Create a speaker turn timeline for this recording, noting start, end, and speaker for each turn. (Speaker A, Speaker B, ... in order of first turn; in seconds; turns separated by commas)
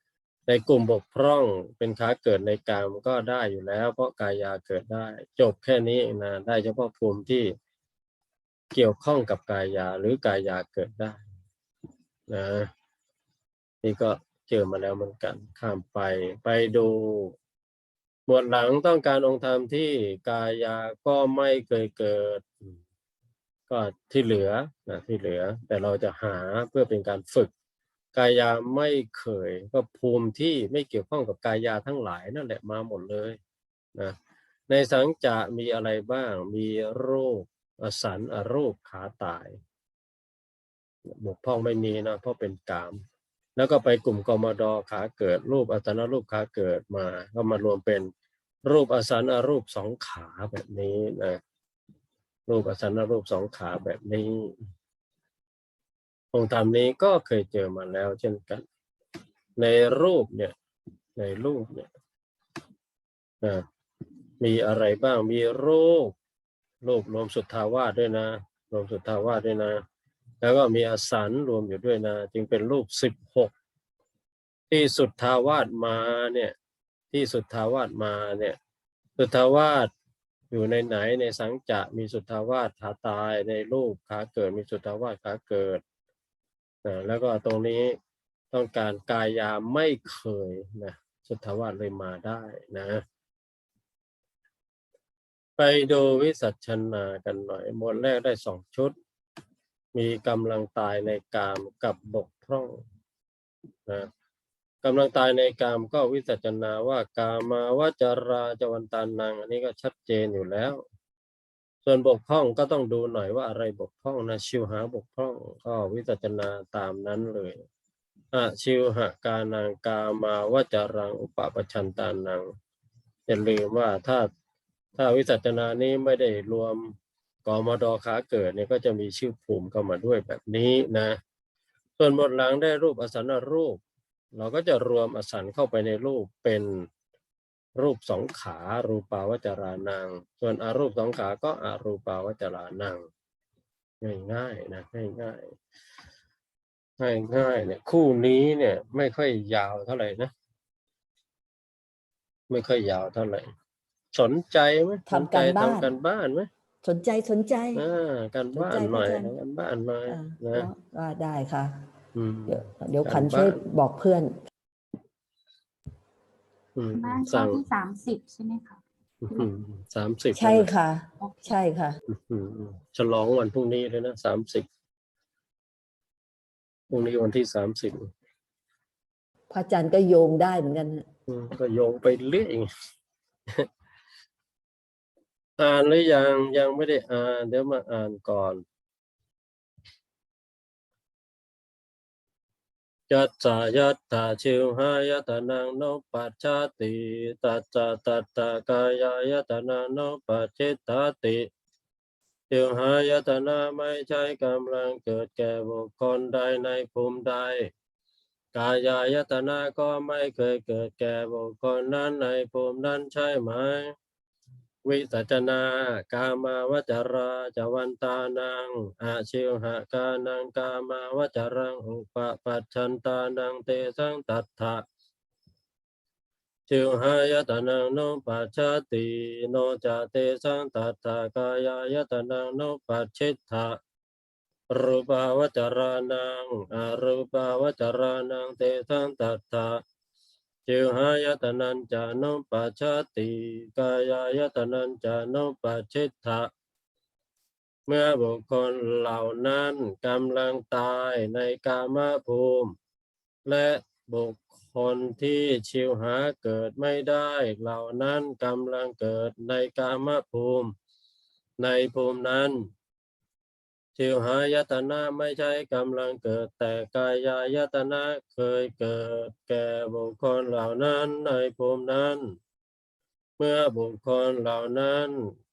Speaker A: 0.5-7.5, Speaker A: 8.7-11.2, Speaker A: 12.3-12.7, Speaker A: 13.8-17.4, Speaker A: 18.3-22.8, Speaker A: 23.7-27.5, Speaker A: 28.1-33.4, Speaker A: 34.7-39.6, Speaker A: 41.1-43.0, Speaker A: 43.6-48.1, Speaker A: 48.6-51.4, Speaker A: 52.5-54.5, Speaker A: 56.3-58.6, Speaker A: 59.6-60.5, Speaker A: 61.2-61.9, Speaker A: 64.4-66.1, Speaker A: 66.8-69.8, Speaker A: 70.4-73.5, Speaker A: 74.7-76.5, Speaker A: 77.1-78.6, Speaker A: 79.2-79.9, Speaker A: 80.5-85.8, Speaker A: 86.8-88.0, Speaker A: 88.5-93.0, Speaker A: 95.6-98.9, Speaker A: 99.9-102.8, Speaker A: 104.8-110.8, Speaker A: 111.8-117.6, Speaker A: 118.3-122.5, Speaker A: 123.3-124.3, Speaker A: 125.0-126.9, Speaker A: 127.5-131.2, Speaker A: 132.0-133.8, Speaker A: 134.3-136.9, Speaker A: 137.8-143.1, Speaker A: 144.0-145.6, Speaker A: 147.0-150.3, Speaker A: 152.5-153.5, Speaker A: 154.1-156.5, Speaker B: 155.1-155.9, Speaker B: 156.8-157.8, Speaker A: 157.7-160.7, Speaker B: 158.5-159.3, Speaker B: 160.1-161.8, Speaker A: 162.2-163.6, Speaker B: 162.5-164.4, Speaker A: 166.8-167.6, Speaker C: 167.0-169.5, Speaker A: 169.2-170.7, Speaker B: 170.4-172.0, Speaker C: 171.2-171.6, Speaker A: 172.1-174.7, Speaker A: 176.9-178.1, Speaker B: 179.5-181.1, Speaker A: 181.3-182.7, Speaker A: 185.6-188.6, Speaker A: 193.1-201.5, Speaker A: 202.5-207.7, Speaker A: 208.5-213.9, Speaker A: 214.8-224.8, Speaker A: 226.7-233.8, Speaker A: 234.7-239.8, Speaker A: 240.7-246.5, Speaker A: 247.9-252.7, Speaker A: 253.5-260.7, Speaker A: 261.6-262.7, Speaker A: 264.0-272.4, Speaker A: 273.4-275.3